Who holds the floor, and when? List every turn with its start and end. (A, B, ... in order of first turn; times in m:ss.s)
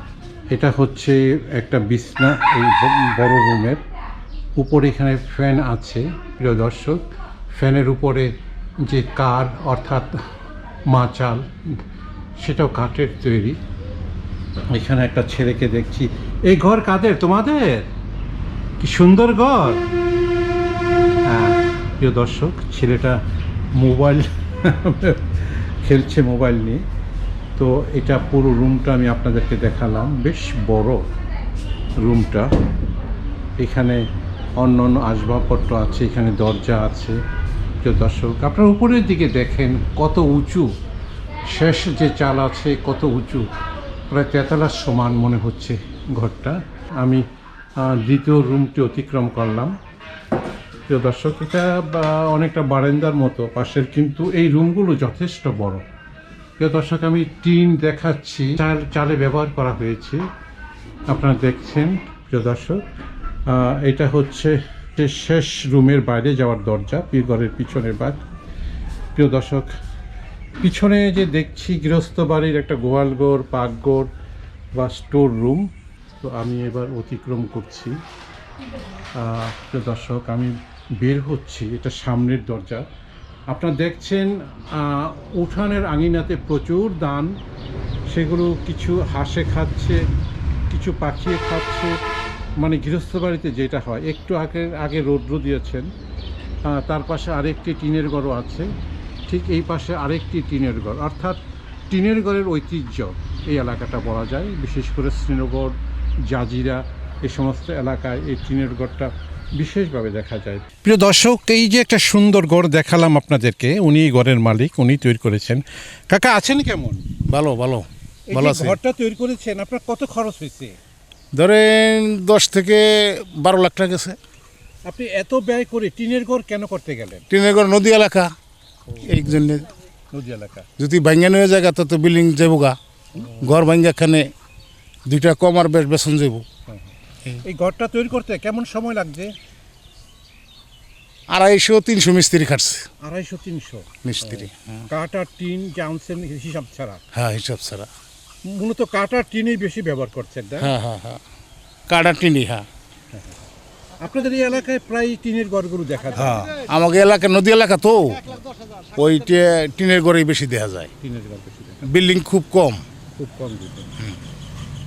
0:00.5-0:03.8 A
0:04.6-0:07.0 A
0:07.5-0:08.3 A
0:08.8-0:10.1 A
0:10.9-0:11.4 A
0:12.4-0:13.6 A
0:14.7-0:17.9 A
0:18.8-0:19.8 A
0:21.2-0:23.2 A
0:23.7-0:26.8 A
0:27.6-0:31.0 A
0:32.0-0:32.5 A
0:33.6-0:34.0 A
0:34.6-0:37.2 A
0:37.8-0:40.7 A
0:41.5-0:43.5 A
0:44.1-0:47.2 A
0:47.8-0:49.7 A
0:50.9-0:55.8 A
0:56.6-1:00.2 A
1:01.1-1:02.8 A
1:03.5-1:08.2 A
1:09.2-1:09.7 A
1:10.6-1:14.1 A
1:14.7-1:15.7 A
1:16.2-1:18.0 A
1:19.2-1:22.8 A
1:23.5-1:27.3 A
1:28.1-1:30.0 A
1:30.7-1:31.9 A
1:32.6-1:35.9 A
1:36.6-1:38.7 A
1:39.3-1:57.1 A
1:57.3-1:58.8 B
1:58.3-2:00.8 A
2:01.3-2:04.2 B
2:04.8-2:07.2 A
2:07.3-2:08.3 B
2:09.0-2:09.7 B
2:10.1-2:10.7 A
2:10.8-2:14.3 B
2:13.1-2:13.4 A
2:15.0-2:16.4 B
2:16.7-2:19.3 A
2:21.3-2:22.9 B
2:23.0-2:27.0 A
2:24.0-2:24.8 B
2:27.1-2:27.9 B
2:28.4-2:30.7 A
2:30.6-2:31.2 B
2:31.9-2:32.6 B
2:34.0-2:36.5 A
2:36.2-2:38.4 B
2:38.9-2:40.9 B
2:41.0-2:41.9 A
2:41.8-2:42.8 B
2:43.2-2:43.9 A